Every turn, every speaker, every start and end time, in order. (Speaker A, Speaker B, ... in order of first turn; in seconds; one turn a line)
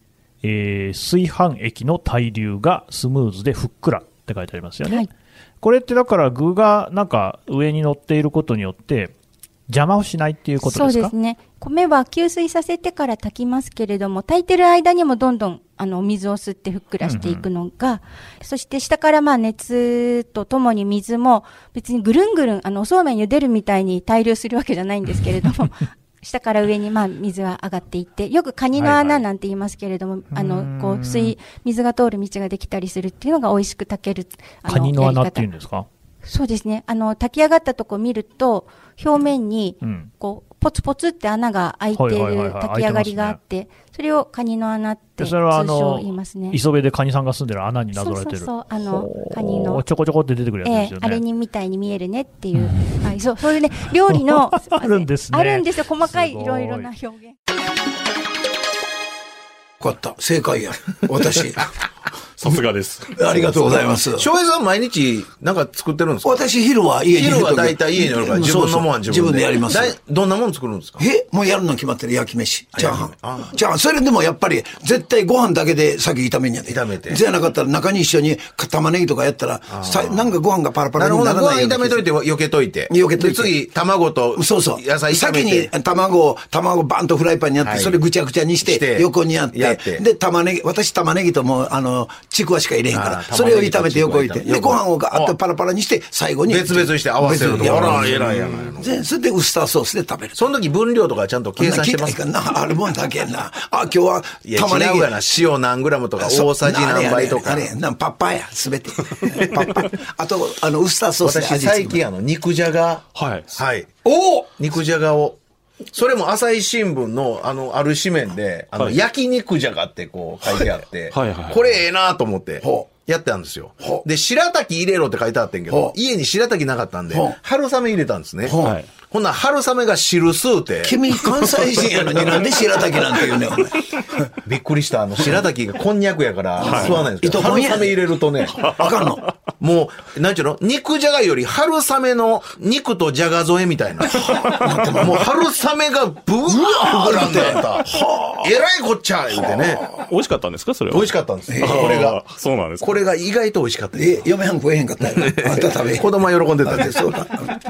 Speaker A: 0.4-5.1
Speaker B: 4.8-5.1
Speaker A: 5.6-9.1
Speaker A: 9.7-11.1
Speaker B: 10.6-35.5
Speaker A: 17.0-17.4
Speaker A: 28.8-29.2
Speaker A: 30.3-31.4
Speaker A: 34.6-35.9
Speaker B: 36.2-46.6
Speaker A: 39.8-40.1
Speaker A: 41.9-43.4
Speaker A: 45.2-51.2
Speaker B: 47.9-49.9
Speaker B: 50.6-57.4
Speaker A: 52.6-53.0
Speaker A: 54.1-56.9
Speaker C: 59.8-61.6
Speaker D: 62.4-63.1
Speaker C: 63.2-64.2
Speaker E: 63.5-66.4
Speaker C: 66.2-70.0
Speaker E: 67.1-71.1
Speaker C: 71.0-82.0
Speaker E: 72.7-73.5
Speaker E: 76.7-77.2
Speaker E: 79.7-80.3
Speaker E: 80.9-85.7
Speaker C: 82.9-83.6
Speaker C: 84.3-100.5
Speaker E: 87.6-88.0
Speaker E: 88.6-90.0
Speaker E: 92.9-95.3
Speaker E: 96.5-98.9
Speaker E: 100.3-102.2
Speaker C: 101.6-105.1
Speaker E: 104.4-107.7
Speaker C: 106.2-112.0
Speaker E: 109.3-109.9
Speaker E: 111.2-113.0
Speaker D: 113.1-113.6
Speaker E: 113.5-115.4
Speaker C: 114.0-114.5
Speaker E: 115.9-133.6
Speaker D: 121.1-121.8
Speaker C: 122.6-122.9
Speaker C: 125.7-125.9
Speaker C: 127.1-127.4
Speaker C: 128.4-128.7
Speaker D: 128.6-128.9
Speaker C: 130.8-133.7
Speaker E: 134.4-149.9
Speaker D: 136.6-137.0
Speaker C: 136.6-138.0
Speaker D: 138.6-139.3
Speaker C: 138.6-139.2
Speaker C: 144.6-145.2
Speaker C: 146.5-148.2
Speaker D: 150.0-153.0
Speaker E: 150.9-152.2
Speaker E: 152.8-154.2
Speaker C: 153.9-157.5
Speaker E: 155.1-157.3